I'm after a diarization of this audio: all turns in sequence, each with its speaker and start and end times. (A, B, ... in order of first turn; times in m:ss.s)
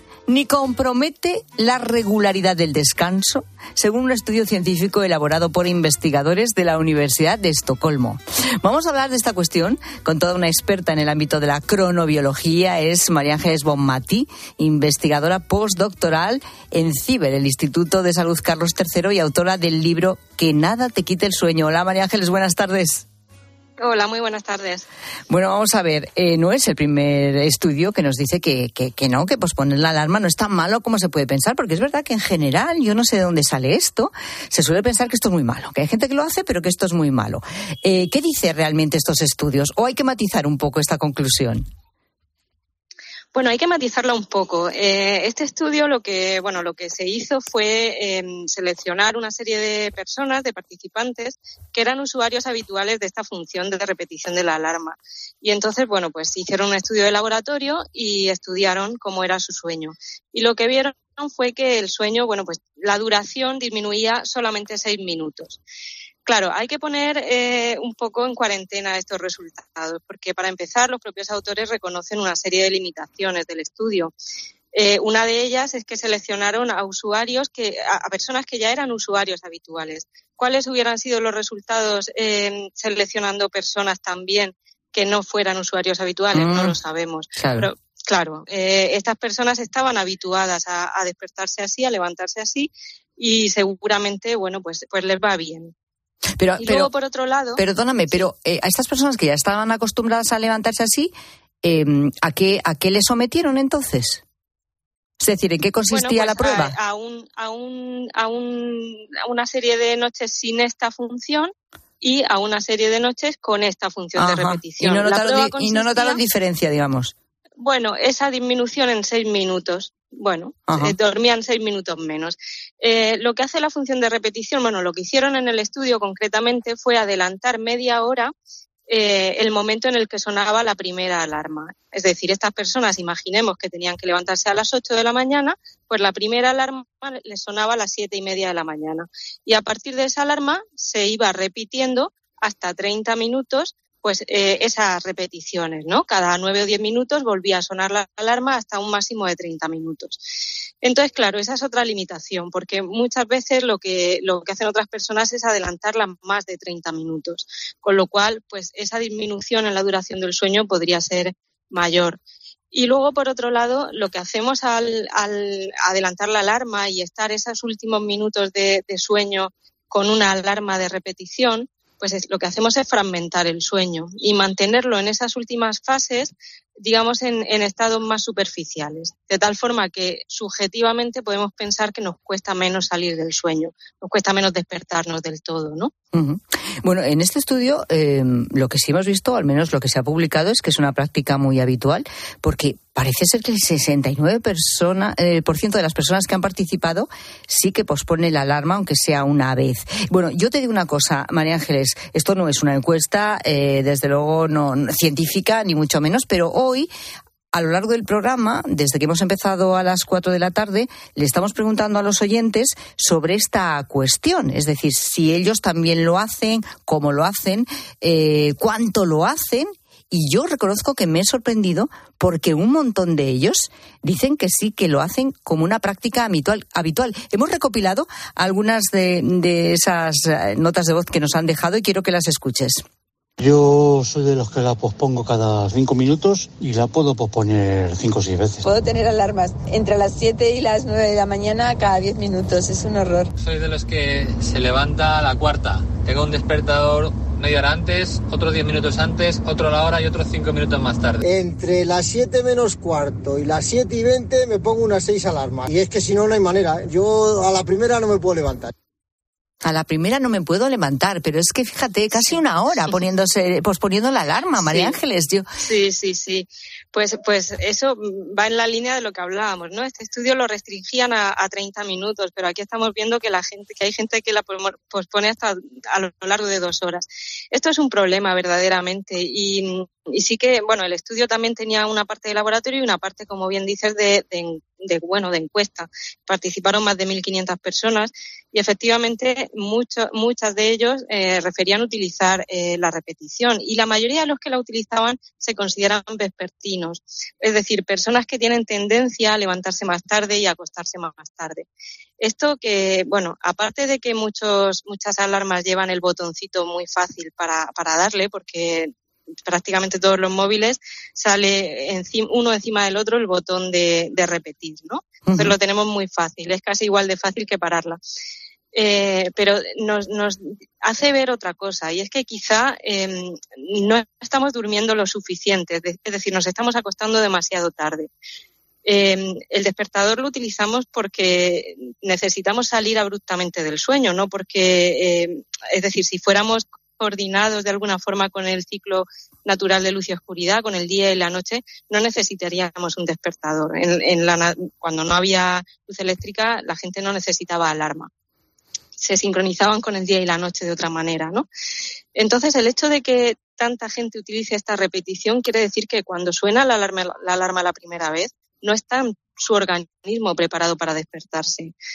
0:00.3-0:23.0 A
0:23.8-0:24.8 B
0:25.3-0:41.7 A
0:43.3-1:05.6 B
1:06.3-1:14.1 B
1:14.7-1:35.7 B
1:26.3-1:26.8 A
1:27.4-1:27.7 A
1:36.4-1:36.9 A
1:36.6-1:37.6 B
1:37.6-1:44.2 A
1:45.2-1:46.8 A
1:45.9-1:56.2 B
1:54.2-1:57.1 A
1:57.6-2:08.3 B
2:00.7-2:01.0 A
2:08.9-2:30.2 B
2:30.8-2:42.2 B
2:42.7-3:05.9 B
3:06.1-3:26.9 A
3:27.5-3:52.8 A
3:53.4-3:58.6 C
3:58.6-4:03.3 D
4:03.4-4:11.2 E
4:11.2-4:18.7 F
4:19.6-4:25.5 A
4:24.7-4:25.0 B
4:25.6-5:01.6 B
5:02.2-5:08.9 B
5:09.5-5:18.0 B
5:15.3-5:15.6 A
5:18.7-5:28.1 B
5:28.8-5:48.1 B
5:49.0-5:51.5 B
5:52.2-6:01.7 B